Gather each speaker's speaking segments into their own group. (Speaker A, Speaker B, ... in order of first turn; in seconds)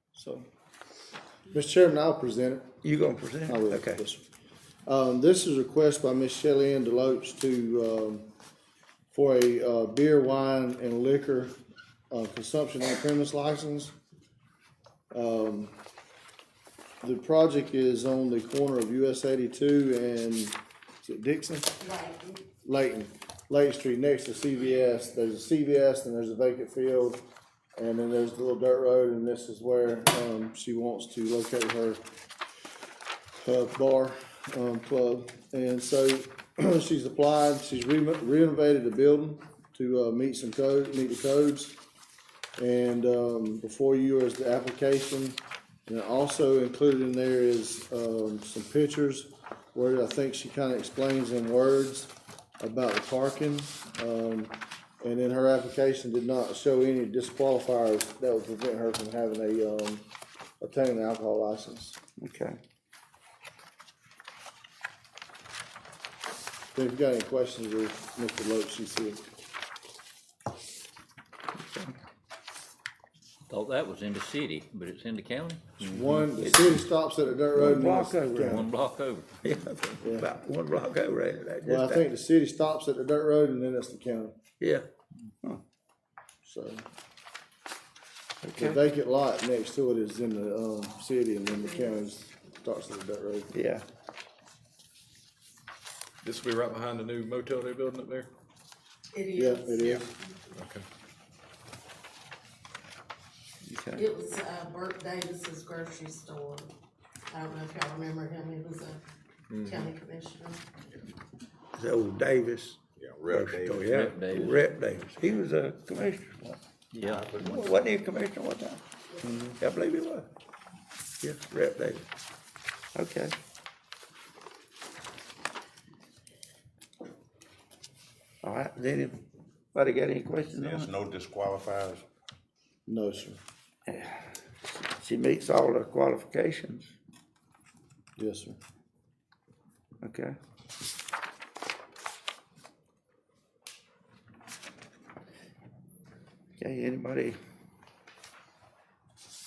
Speaker A: 0.1-0.5, 1.5-2.8, 3.5-4.2, 4.8-8.2, 9.1-11.6, 12.1-13.9, 15.1-15.7, 17.0-21.8, 22.6-27.2, 27.8-32.0, 33.4-41.8, 42.6-60.0, 60.6-62.0, 66.7-69.2, 75.8-78.6, 80.0-80.3, 81.6-84.3, 86.4-86.8, 88.6-93.5, 99.4-100.0, 132.9-133.4, 138.2-138.6
Speaker B: 2.8-4.0, 62.2-62.6, 71.6-71.9, 76.4-76.8, 77.5-78.6, 79.4-82.0, 84.6-84.9, 88.4-88.8, 93.5-93.8, 103.6-104.0, 111.7-116.6, 117.4-118.8, 119.6-120.3, 121.2-122.0, 122.9-123.3, 128.4-129.2, 129.7-130.9, 133.9-136.9, 140.0-140.4, 146.6-147.4
Speaker C: 21.8-22.4, 99.1-100.7, 104.0-106.7, 107.3-109.0, 109.5-110.6
Speaker D: 73.5-76.2, 78.4-79.3, 113.8-114.6, 116.9-117.3
Speaker E: 96.2-98.3
Speaker F: 113.0-114.0, 117.0-117.8, 130.6-132.0